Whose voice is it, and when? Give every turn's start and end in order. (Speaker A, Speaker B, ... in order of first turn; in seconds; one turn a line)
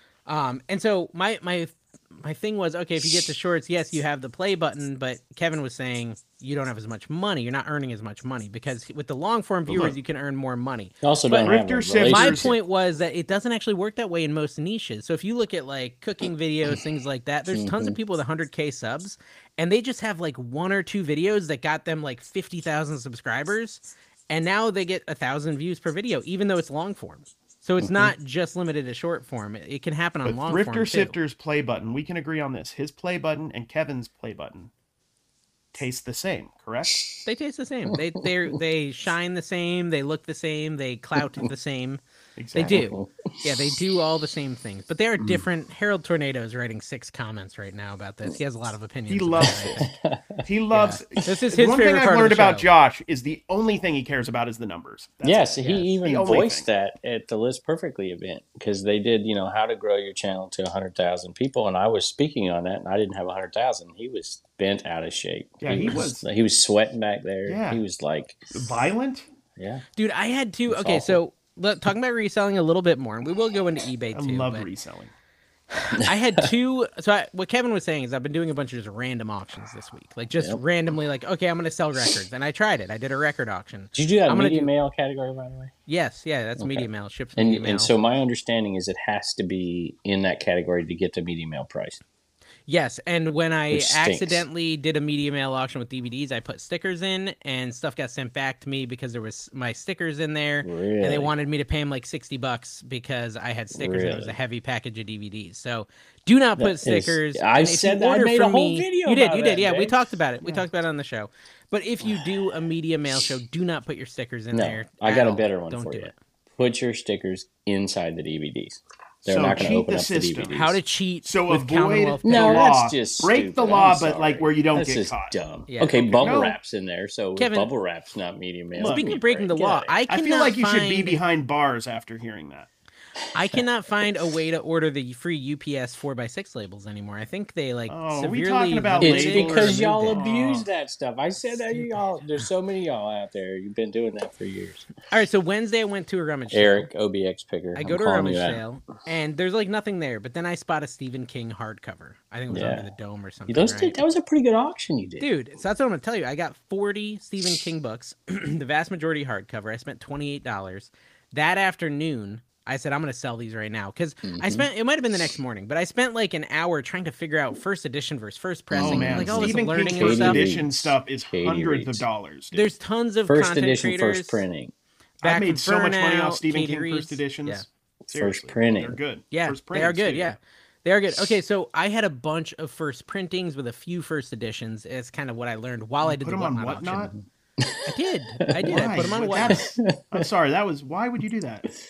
Speaker A: 0.3-11.5
Speaker B: 9.7-9.9
Speaker C: 11.0-12.5
Speaker B: 11.4-12.5
Speaker A: 12.0-31.1
Speaker C: 17.5-18.0
Speaker C: 27.8-28.1
Speaker B: 30.2-34.7
Speaker B: 35.7-37.0
Speaker A: 37.2-42.0
Speaker C: 37.9-38.3
Speaker B: 42.4-42.8
Speaker A: 42.5-49.8
Speaker C: 42.7-43.5
Speaker C: 45.2-45.4
Speaker B: 49.1-49.9
Speaker C: 49.8-50.4
Speaker B: 50.4-56.7
Speaker A: 50.7-52.7
Speaker C: 55.2-68.5
Speaker B: 65.6-66.2
Speaker B: 67.5-67.8
Speaker B: 68.5-69.2
Speaker C: 69.6-69.8
Speaker A: 70.0-74.7
Speaker C: 70.7-71.2
Speaker B: 74.1-75.1
Speaker A: 75.7-84.7
Speaker C: 76.0-76.5
Speaker C: 83.9-85.7
Speaker A: 85.9-87.9
Speaker C: 86.6-92.0
Speaker A: 92.7-116.1
Speaker C: 93.7-94.5
Speaker C: 100.6-101.3
Speaker C: 103.7-104.4
Speaker C: 106.6-110.0
Speaker C: 114.5-120.8
Speaker B: 119.2-120.6
Speaker A: 120.5-122.7
Speaker B: 121.2-125.3
Speaker C: 122.2-129.9
Speaker A: 125.7-126.3
Speaker B: 126.2-126.6
Speaker A: 127.4-127.7
Speaker B: 128.8-129.1
Speaker A: 128.8-131.2
Speaker B: 130.1-132.7
Speaker A: 133.3-140.2
Speaker B: 137.9-140.7
Speaker C: 139.0-144.9
Speaker A: 141.7-142.4
Speaker A: 145.1-146.9
Speaker C: 146.5-148.6
Speaker A: 147.7-154.0
Speaker C: 152.5-152.9
Speaker C: 153.5-155.3
Speaker A: 155.2-170.4
Speaker C: 164.2-164.7
Speaker C: 168.7-172.0
Speaker B: 168.8-172.7
Speaker A: 172.5-174.4
Speaker C: 173.2-174.7
Speaker A: 175.2-177.6
Speaker B: 175.2-180.3
Speaker C: 178.1-179.0
Speaker A: 179.3-187.1
Speaker B: 186.0-187.1
Speaker C: 187.6-187.9
Speaker A: 187.8-189.6
Speaker C: 188.5-188.8
Speaker B: 188.7-191.7
Speaker C: 189.4-190.2